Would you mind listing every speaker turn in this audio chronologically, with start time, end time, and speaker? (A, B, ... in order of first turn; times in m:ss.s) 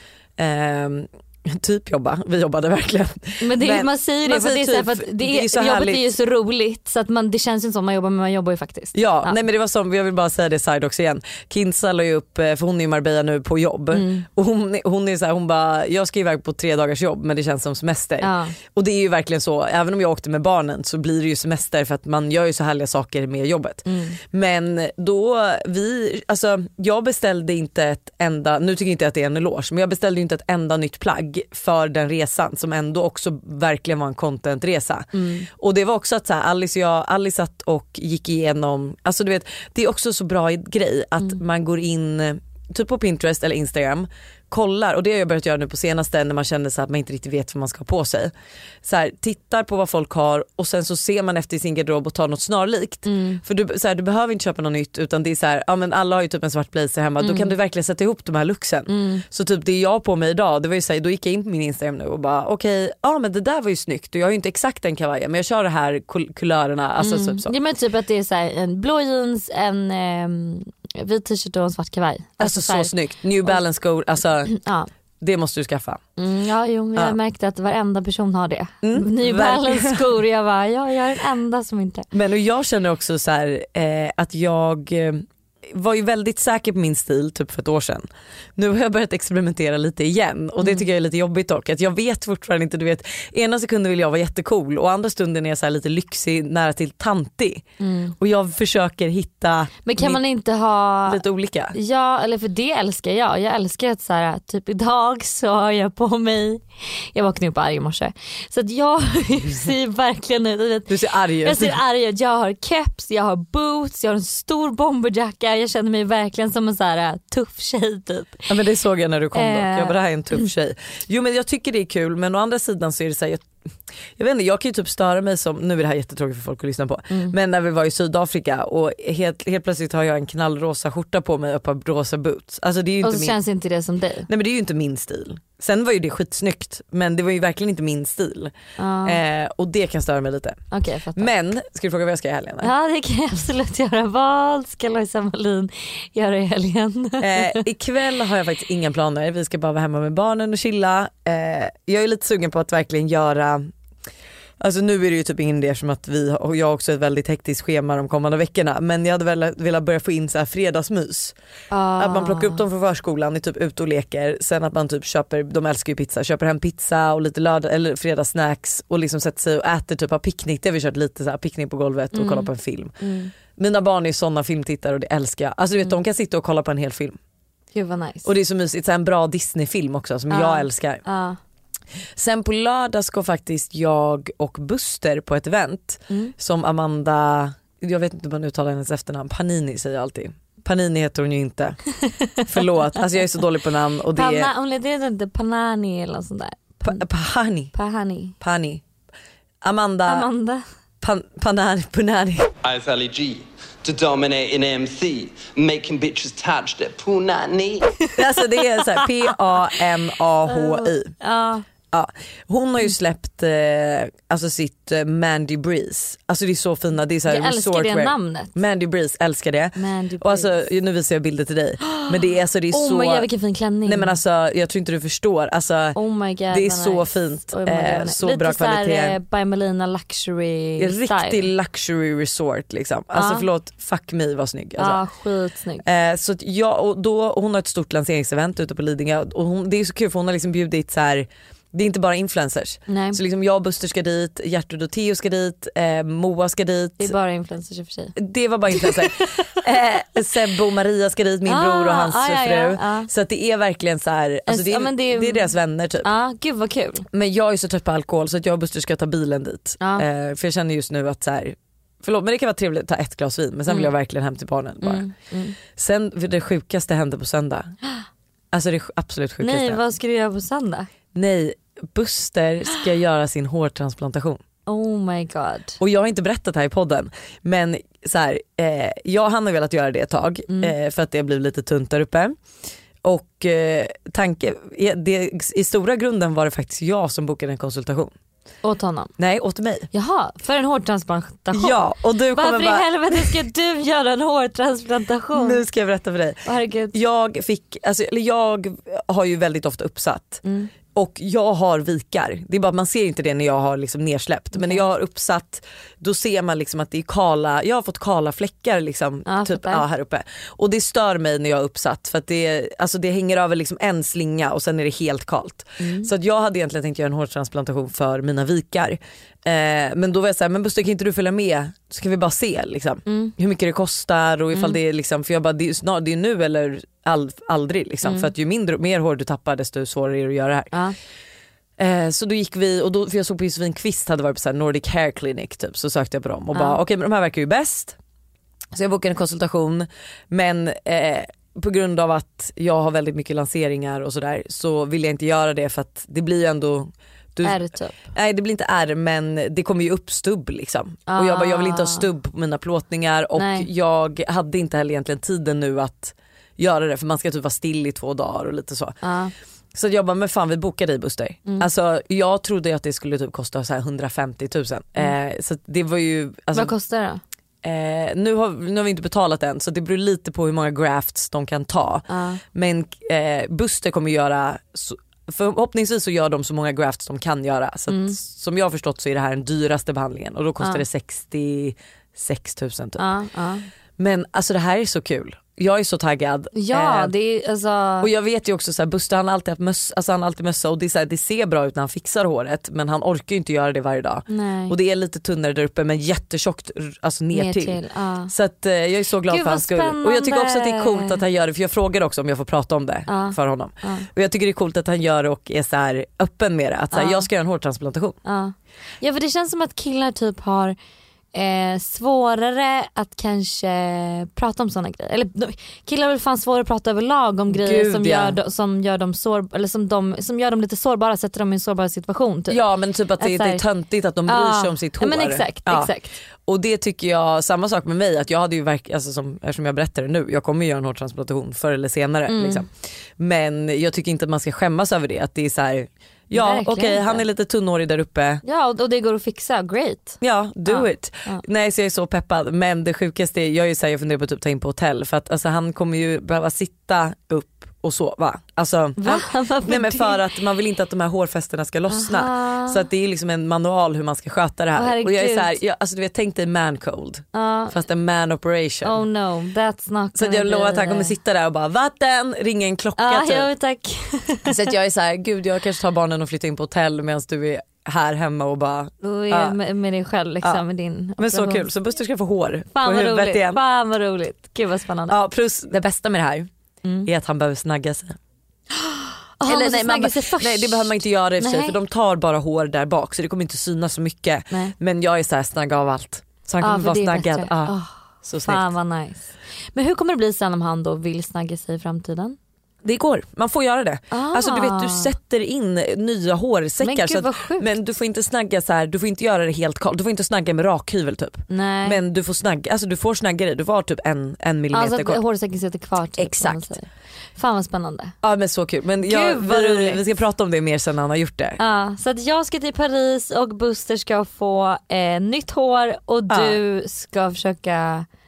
0:00.4-0:06.1 A
0:03.4-0:09.4 B
0:08.9-0:48.3 A
0:13.9-0:14.3 B
0:18.2-0:18.6 B
0:23.9-0:24.2 B
0:48.8-1:07.5 A
0:53.0-0:53.4 B
0:57.2-0:57.5 B
0:58.9-0:59.2 B
1:07.0-1:12.9 B
1:12.4-1:14.5 A
1:14.5-1:14.9 B
1:15.2-1:16.0 A
1:16.2-1:22.1 B
1:18.8-1:20.0 A
1:22.1-1:28.0 A
1:28.6-1:37.6 A
1:37.8-1:38.2 B
1:38.2-1:40.2 A
1:39.9-1:41.2 B
1:41.1-1:41.8 A
1:41.7-1:58.7 B
1:50.9-1:51.8 A
1:58.5-2:03.5 A
1:59.3-2:00.5 B
2:04.2-2:13.4 A
2:13.0-2:14.3 B
2:14.3-2:20.6 A
2:18.8-2:19.2 B
2:20.7-2:21.3 B
2:21.2-2:22.7 A
2:22.6-2:27.7 B
2:27.2-2:33.7 A
2:34.6-2:41.4 A
2:41.7-2:42.6 B
2:42.0-2:52.9 A
2:52.1-2:53.3 B
2:53.6-2:57.2 A
2:57.7-2:58.3 B
2:58.2-3:01.0 A
3:00.3-3:01.4 B
3:02.2-3:11.8 A
3:12.0-3:12.6 B
3:12.5-3:14.5 A
3:14.1-3:17.0 B
3:16.8-3:17.7 A
3:17.7-3:18.4 B
3:18.4-3:18.8 A
3:19.6-3:20.3 A
3:20.1-3:20.6 B
3:21.0-3:22.5 A
3:22.6-3:28.1 C
3:28.1-3:31.2 A
3:28.2-3:28.8 B
3:30.5-3:31.6 B
3:31.9-3:43.3 A
3:37.3-3:38.5 B
3:39.8-3:40.7 B
3:41.9-3:42.2 B
3:42.7-3:44.2 B
3:43.8-3:46.0 A
3:46.0-3:51.5 B
3:46.5-3:49.2 A
3:50.8-3:55.0 A
3:53.1-3:53.5 B
3:54.8-3:55.8 B
3:55.8-4:07.1 A
4:02.9-4:03.2 B
4:07.0-4:08.2 B
4:08.2-4:16.1 A
4:08.7-4:09.5 B
4:11.5-4:13.1 B
4:14.5-4:17.1 B
4:17.1-4:25.1 A
4:19.8-4:20.1 B
4:24.8-4:25.6 B
4:25.8-4:27.8 A
4:28.5-4:29.8 A
4:29.4-4:30.9 B
4:31.1-4:34.4 A
4:34.7-4:35.8 B
4:35.8-4:42.4 A
4:43.0-4:48.1 A
4:48.6-4:49.1 B
4:49.2-4:49.9 A
4:49.9-4:55.6 B
4:51.5-4:53.4 A
4:55.4-5:30.7 A
4:56.4-4:56.9 B
5:00.4-5:00.7 B
5:04.5-5:04.8 B
5:09.3-5:09.8 B
5:15.8-5:16.1 B
5:23.1-5:23.3 B
5:28.0-5:28.3 B
5:31.8-5:38.0 A
5:36.5-5:36.8 B
5:38.7-5:59.0 A
5:47.4-5:48.1 B
5:51.1-5:52.1 B
5:53.4-5:53.7 B
5:59.0-5:59.3 B
5:59.7-6:06.7 A
6:06.5-6:07.2 B
6:07.6-6:23.1 A
6:12.1-6:12.4 B
6:17.9-6:18.2 B
6:23.0-6:23.7 B
6:24.0-6:27.1 A
6:26.5-6:28.1 B
6:28.0-6:48.2 A
6:34.3-6:34.8 B
6:37.3-6:38.3 B
6:39.3-6:41.2 B
6:43.1-6:44.1 B
6:46.9-6:47.3 B
6:48.2-6:50.8 B
6:51.3-7:02.6 B
6:57.5-6:58.4 A
7:02.5-7:05.9 A
7:03.2-7:03.6 B
7:04.3-7:06.2 B
7:06.4-7:18.4 A
7:12.3-7:12.6 B
7:16.3-7:17.2 B
7:18.4-7:21.4 B
7:20.2-7:39.0 A
7:29.0-7:30.2 B
7:31.9-7:32.9 B
7:34.8-7:35.5 B
7:37.3-7:37.8 B
7:38.8-7:41.1 B
7:40.2-7:43.5 A
7:43.0-7:44.7 B
7:44.4-7:49.6 A
7:49.0-7:51.7 B
7:51.2-7:53.6 A
7:52.8-7:55.2 B
7:55.1-7:56.5 A
7:57.0-7:58.2 A
7:58.8-8:01.8 B
7:59.5-8:08.7 A
8:06.6-8:12.4 B
8:12.8-8:25.2 A
8:14.1-8:15.2 B
8:16.8-8:17.7 B
8:21.5-8:22.0 B
8:24.7-8:28.2 B
8:26.2-8:26.7 A
8:28.2-8:31.6 A
8:29.0-8:30.0 B
8:31.6-8:38.1 B
8:36.3-8:36.6 A